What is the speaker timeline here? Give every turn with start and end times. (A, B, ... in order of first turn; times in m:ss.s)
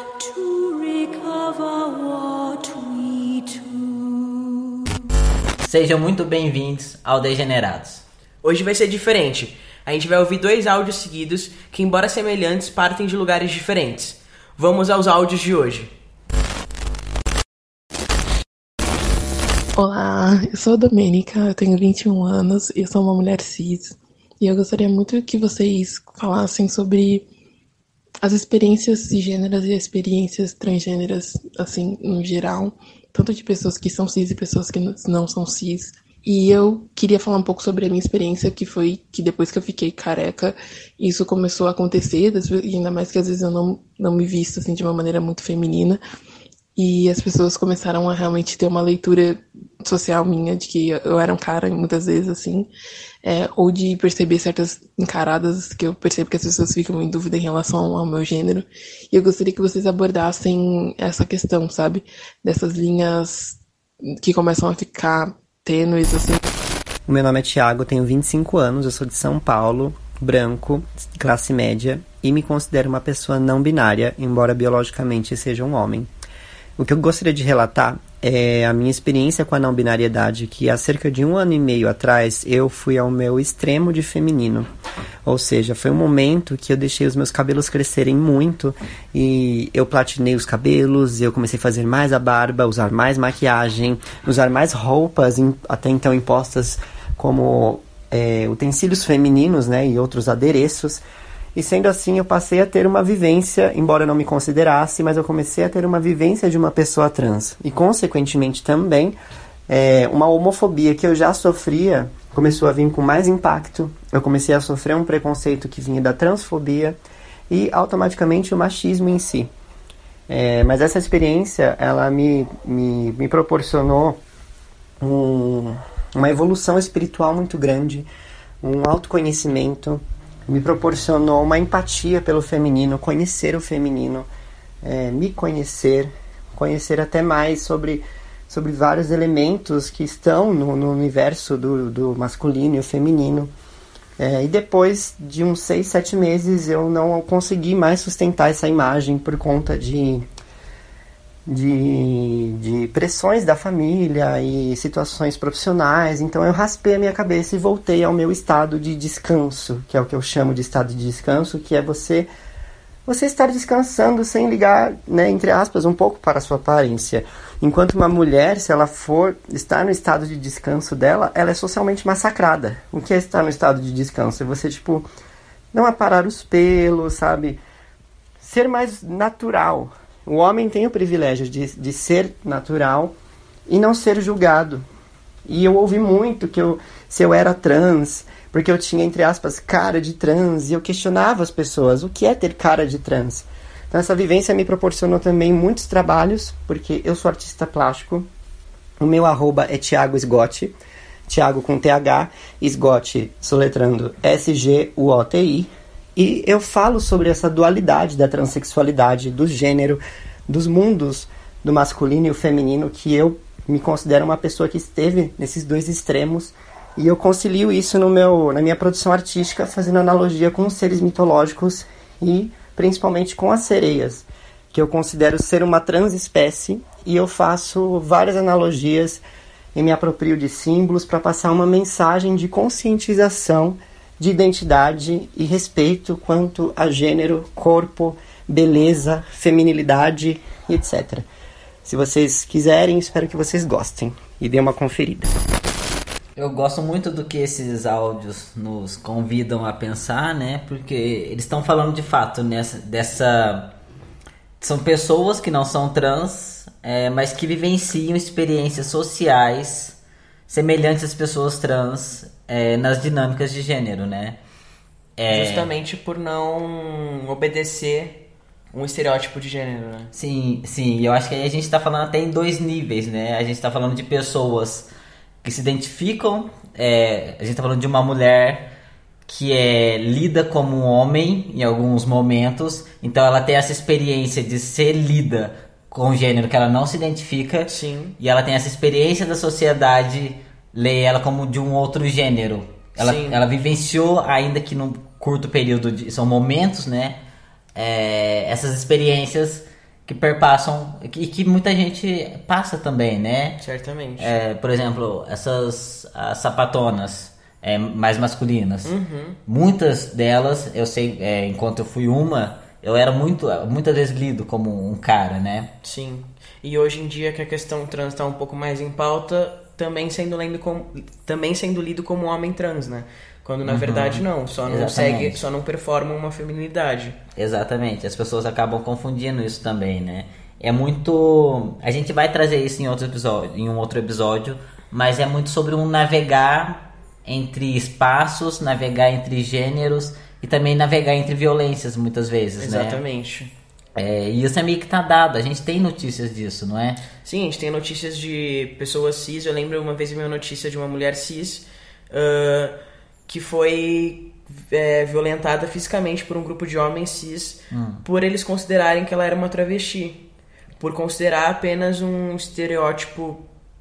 0:00.2-0:04.6 A
0:05.6-0:08.0 B
0:08.4-0:15.9 C
0:19.8-0:27.3 D
0:28.2-0:46.0 D
0:46.8-0:52.7 D
0:53.2-1:03.6 D
1:04.2-1:06.4 D
1:07.1-1:16.1 E
1:16.8-1:24.7 E
1:25.2-1:41.0 E
1:41.6-1:49.2 E
1:49.7-1:57.0 E
1:57.5-1:59.5 E
2:00.3-2:04.2 E
2:05.0-2:08.1 E
2:08.6-2:14.3 E
2:14.8-2:23.5 E
2:24.2-2:30.3 E
2:31.5-2:42.3 E
2:43.1-2:55.1 E
2:55.7-2:57.6 E
2:58.4-3:03.1 E
3:03.7-3:04.8 E
3:05.5-3:18.3 E
3:19.0-3:20.7 E
3:21.3-3:49.2 E
3:49.8-4:01.3 E
4:01.8-4:05.3 E
4:06.4-4:13.7 B
4:14.6-4:20.0 B
4:20.5-4:24.4 B
4:25.2-4:25.7 B
4:25.3-4:28.2 C
4:28.7-4:30.1 C
4:30.1-4:34.9 B
4:35.4-4:38.7 B
4:39.3-4:57.2 B
4:47.7-4:48.2 C
4:53.0-4:53.4 C
4:57.8-5:03.6 B
5:03.6-5:04.4 C
5:04.2-5:15.7 B
5:08.8-5:09.4 C
5:15.8-5:27.2 C
5:23.6-5:25.5 B
5:27.4-5:43.0 B
5:42.6-5:43.5 C
5:44.0-5:47.0 B
5:47.2-5:52.8 C
5:53.3-6:00.2 C
5:57.7-5:58.0 B
6:00.8-6:03.4 C